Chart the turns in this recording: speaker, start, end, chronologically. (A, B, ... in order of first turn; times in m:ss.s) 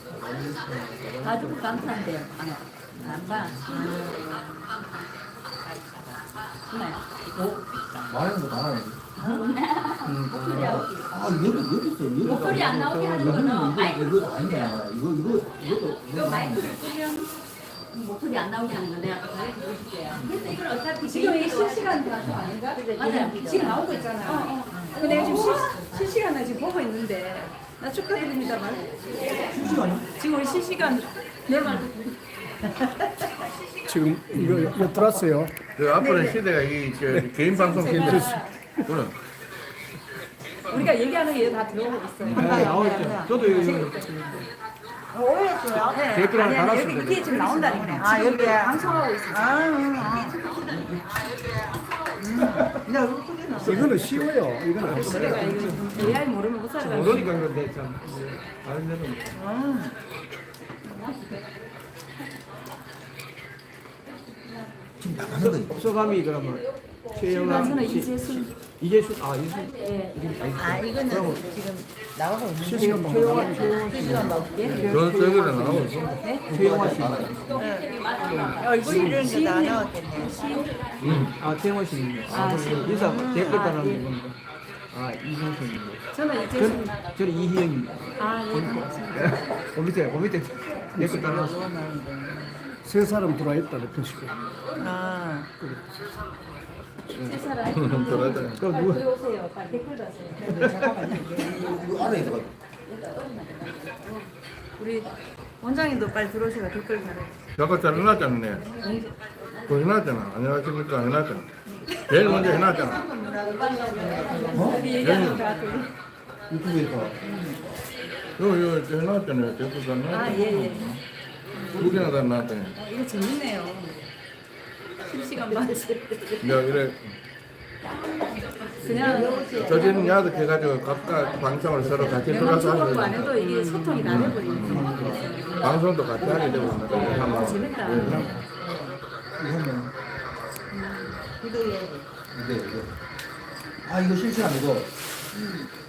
0:00.1-0:02.0 A
0:01.2-0:04.0 B
0:03.0-0:04.7 C
0:06.7-0:07.0 B
0:07.3-0:09.4 D
0:09.2-0:11.1 B
0:10.0-0:11.0 A
0:10.6-0:16.8 D
0:12.2-0:13.5 A
0:12.2-0:14.8 B
0:16.1-0:17.3 B
0:17.9-0:25.8 B
0:21.0-0:29.5 E
0:23.0-0:23.9 C
0:24.4-0:25.5 C
0:29.5-0:30.0 D
0:30.1-0:32.2 E
0:33.8-0:35.5 F
0:34.4-0:34.7 A
0:35.8-0:39.1 G
0:36.0-0:36.4 E
0:37.1-0:38.4 F
0:37.5-0:38.4 E
0:40.7-0:44.4 E
0:42.2-0:42.5 G
0:42.3-0:43.3 C
0:42.3-0:44.5 A
0:45.1-0:46.0 C
0:45.9-0:50.9 E
0:46.0-0:48.2 A
0:47.6-0:50.4 C
0:52.2-0:54.1 C
0:52.5-0:52.8 A
0:53.6-0:55.5 F
0:53.6-0:56.1 A
0:54.8-0:57.4 E
0:56.8-0:59.3 A
0:59.3-0:59.9 C
1:05.0-1:05.8 D
1:05.3-1:11.5 A
1:07.2-1:08.5 E
1:10.5-1:14.9 C
1:12.6-1:13.8 F
1:12.8-1:19.4 A
1:14.5-1:14.9 E
1:14.9-1:16.1 G
1:16.1-1:16.5 E
1:16.5-1:17.4 D
1:17.4-1:19.0 B
1:17.6-1:17.9 C
1:18.6-1:20.7 E
1:18.7-1:20.5 C
1:21.0-1:21.4 G
1:21.0-1:24.4 A
1:22.3-1:24.1 E
1:22.9-1:23.8 C
1:24.9-1:31.7 A
1:26.1-1:27.1 E
1:28.2-1:29.5 E
1:31.0-1:32.6 C
1:32.8-1:34.3 F
1:34.8-1:35.5 C
1:37.1-1:42.3 E
1:37.1-1:37.5 A
1:37.7-1:38.6 G
1:38.6-1:39.1 A
1:40.4-1:41.0 A
1:41.2-1:42.5 D
1:42.9-1:44.1 B
1:44.8-1:45.1 E
1:45.6-1:47.4 E
1:47.6-1:48.7 G
1:48.8-1:49.0 E
1:49.7-1:51.5 G
1:52.1-1:53.0 G
1:52.1-1:55.4 C
1:52.2-1:52.5 D
1:53.4-1:55.7 B
1:54.5-1:55.9 E
1:54.5-1:54.8 D
1:55.0-1:55.4 G
1:56.5-1:57.2 D
1:57.2-1:57.6 C
1:58.4-2:01.0 G
2:00.1-2:00.9 E
2:01.6-2:02.0 E
2:01.8-2:02.8 G
2:01.8-2:02.2 D
2:02.8-2:04.1 E
2:05.0-2:06.6 E
2:06.4-2:07.1 G
2:08.8-2:09.9 E
2:08.9-2:11.8 C
2:09.5-2:13.4 G
2:11.8-2:12.2 D
2:12.2-2:15.5 E
2:13.5-2:15.6 A
2:14.0-2:14.9 G
2:14.6-2:15.3 D
2:15.0-2:17.8 B
2:15.5-2:18.3 G
2:16.2-2:18.4 A
2:16.3-2:18.3 E
2:18.0-2:18.4 D
2:18.6-2:19.0 C
2:19.4-2:19.9 D
2:20.7-2:21.2 E
2:21.4-2:22.1 C
2:22.3-2:22.9 D
2:23.8-2:24.9 D
2:25.3-2:25.7 C